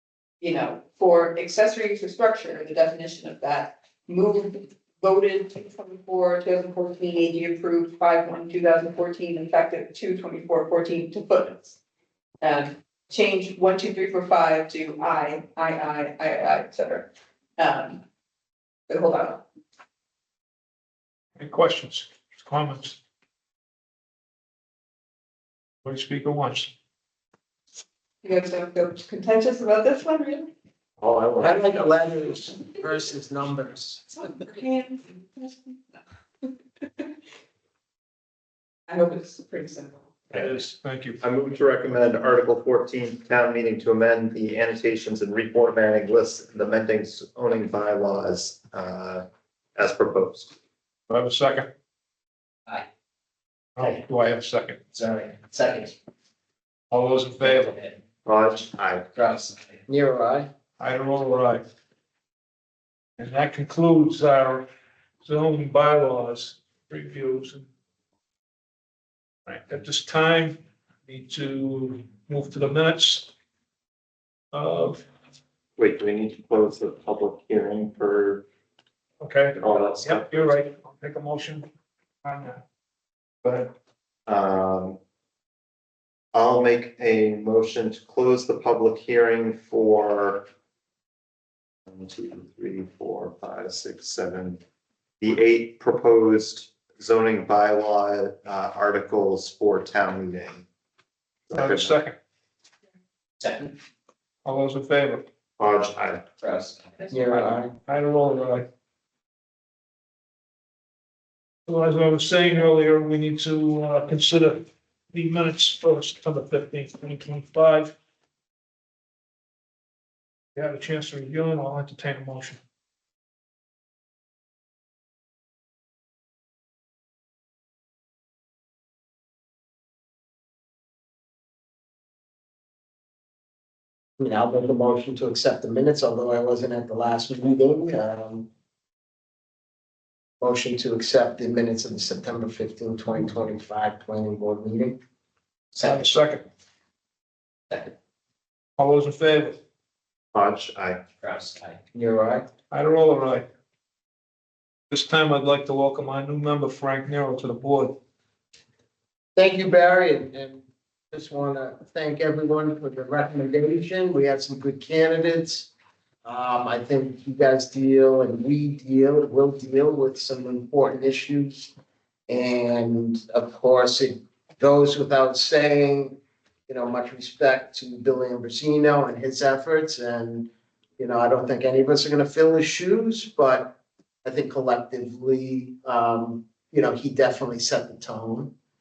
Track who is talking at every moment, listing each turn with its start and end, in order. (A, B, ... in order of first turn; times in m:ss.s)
0:00.4-0:11.8 A
0:12.4-0:18.0 A
0:18.9-0:19.5 A
0:21.4-0:23.0 B
0:25.8-0:26.7 B
0:28.2-0:30.5 A
0:31.0-0:31.8 C
0:31.4-0:34.1 D
0:34.1-0:37.1 A
0:38.9-0:40.1 A
0:40.4-0:41.2 B
0:41.2-0:50.5 C
0:51.1-0:51.7 B
0:53.8-0:54.8 B
0:55.0-0:55.9 E
0:56.9-0:57.8 B
0:58.2-0:59.1 C
0:59.2-0:59.8 E
0:59.9-1:00.5 D
1:00.8-1:01.7 B
1:03.2-1:04.7 B
1:05.2-1:07.7 B
1:09.5-1:13.3 B
1:14.5-1:15.0 B
1:15.8-1:18.4 C
1:19.2-1:21.7 B
1:19.6-1:20.5 C
1:22.2-1:22.6 B
1:23.4-1:23.7 C
1:24.3-1:25.0 C
1:26.3-1:30.5 C
1:31.9-1:34.6 C
1:35.2-1:40.6 C
1:41.5-1:41.9 C
1:41.5-1:42.2 B
1:43.4-1:43.7 E
1:44.4-1:45.2 B
1:45.6-1:46.3 C
1:46.4-1:46.8 E
1:47.1-1:47.8 D
1:47.9-1:48.7 B
1:51.7-1:58.0 B
2:00.6-2:02.6 B
2:14.2-2:18.5 D
2:20.4-2:25.0 D
2:25.8-2:26.5 B
2:28.8-2:29.6 B
2:30.3-2:31.1 C
2:31.2-2:31.8 E
2:31.9-2:32.5 D
2:32.7-2:33.5 B
2:34.9-2:38.0 B
2:39.4-2:45.7 D
2:46.2-2:51.7 D
2:52.3-3:08.5 D